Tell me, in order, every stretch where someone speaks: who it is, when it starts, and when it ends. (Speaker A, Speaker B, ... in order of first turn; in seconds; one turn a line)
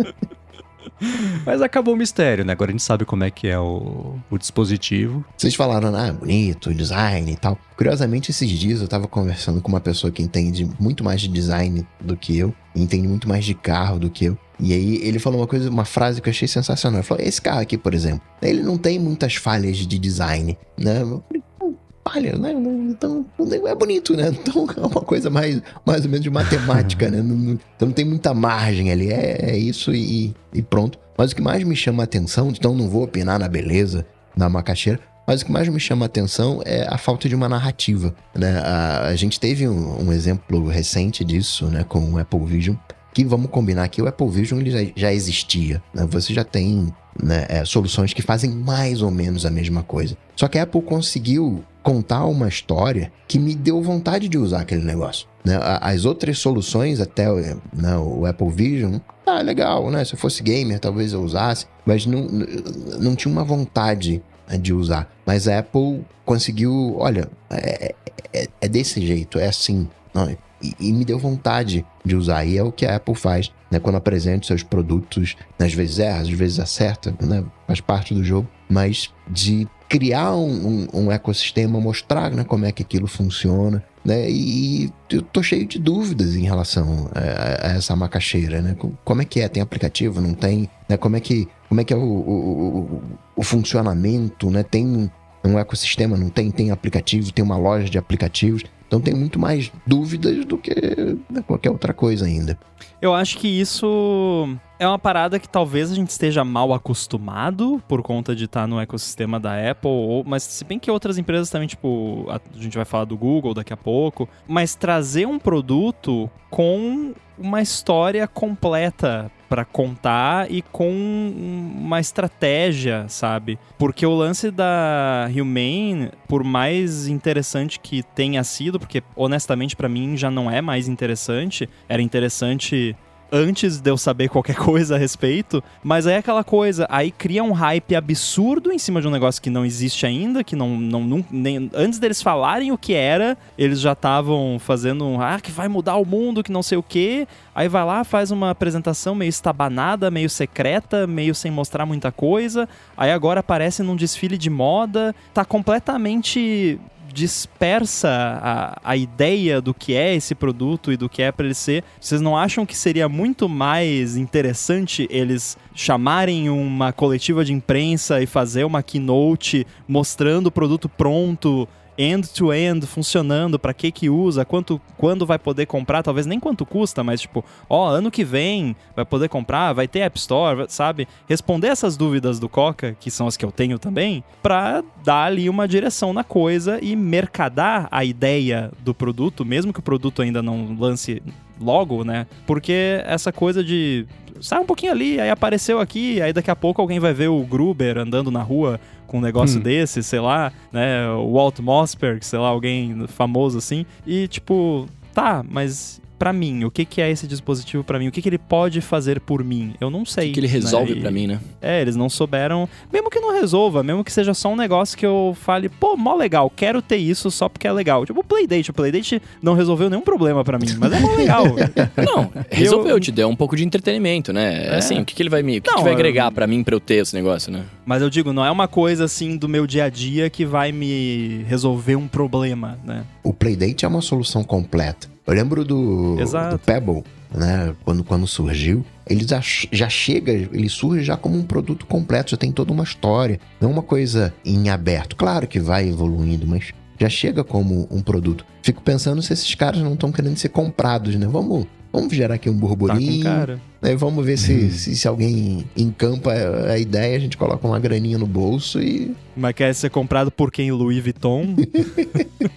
Speaker A: 1.2-5.3
Speaker B: 5.4-102.6
Speaker C: 103.0-223.1
Speaker A: 199.4-199.7
Speaker D: 210.2-211.4
Speaker D: 222.0-227.7
Speaker C: 224.7-225.1
Speaker C: 225.7-226.4
Speaker C: 227.9-233.1
Speaker B: 233.2-259.2
Speaker C: 236.2-236.7
Speaker C: 252.9-253.6
Speaker A: 254.4-254.8
Speaker C: 259.4-261.7
Speaker B: 261.8-262.2